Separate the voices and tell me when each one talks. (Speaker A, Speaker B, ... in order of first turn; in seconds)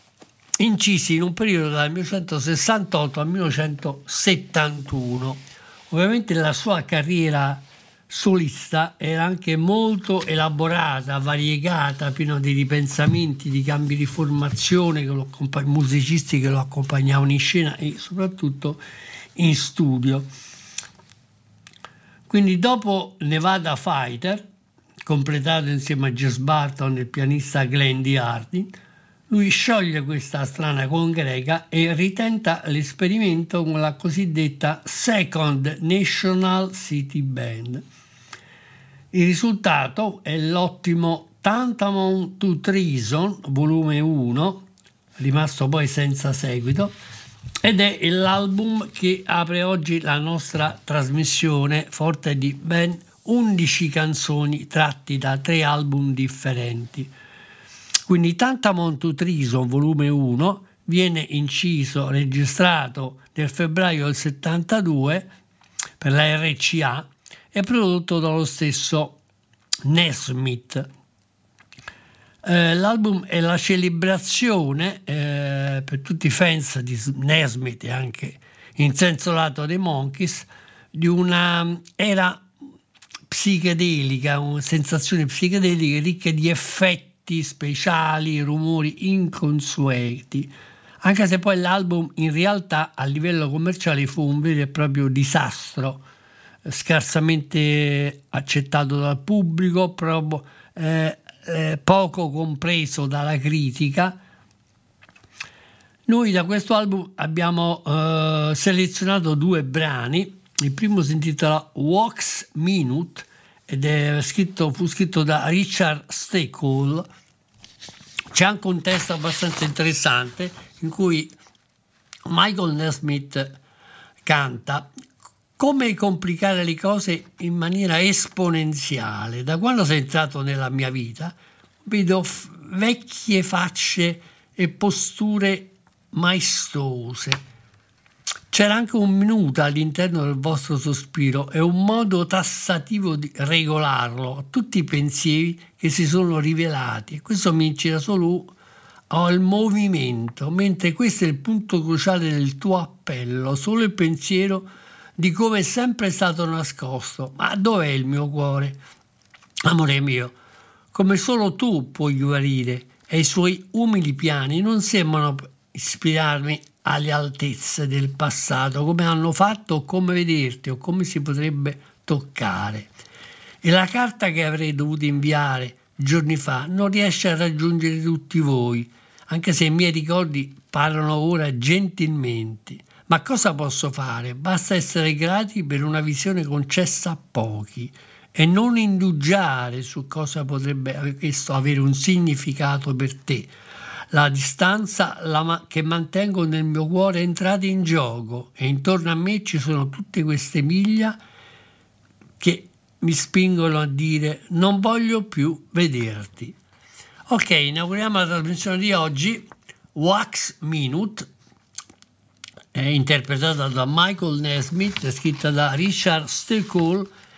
Speaker A: 0.6-18.8, 19.4-20.3, 22.3-24.4, 25.1-28.7, 29.3-37.9, 39.1-44.7, 45.2-46.9, 47.6-57.1, 58.1-65.2, 66.0-69.2, 69.9-70.9, 72.4-82.5, 83.3-90.5, 91.0-96.0, 96.7-104.2, 106.1-117.1, 118.3-121.3, 122.3-123.6, 124.2-124.9, 125.6-131.3, 131.9-137.4, 138.5-148.5, 149.1-158.8, 159.7-160.3, 160.9-172.9, 173.6-193.5, 194.1-201.2, 202.4-206.6, 207.3-211.3, 212.7-217.1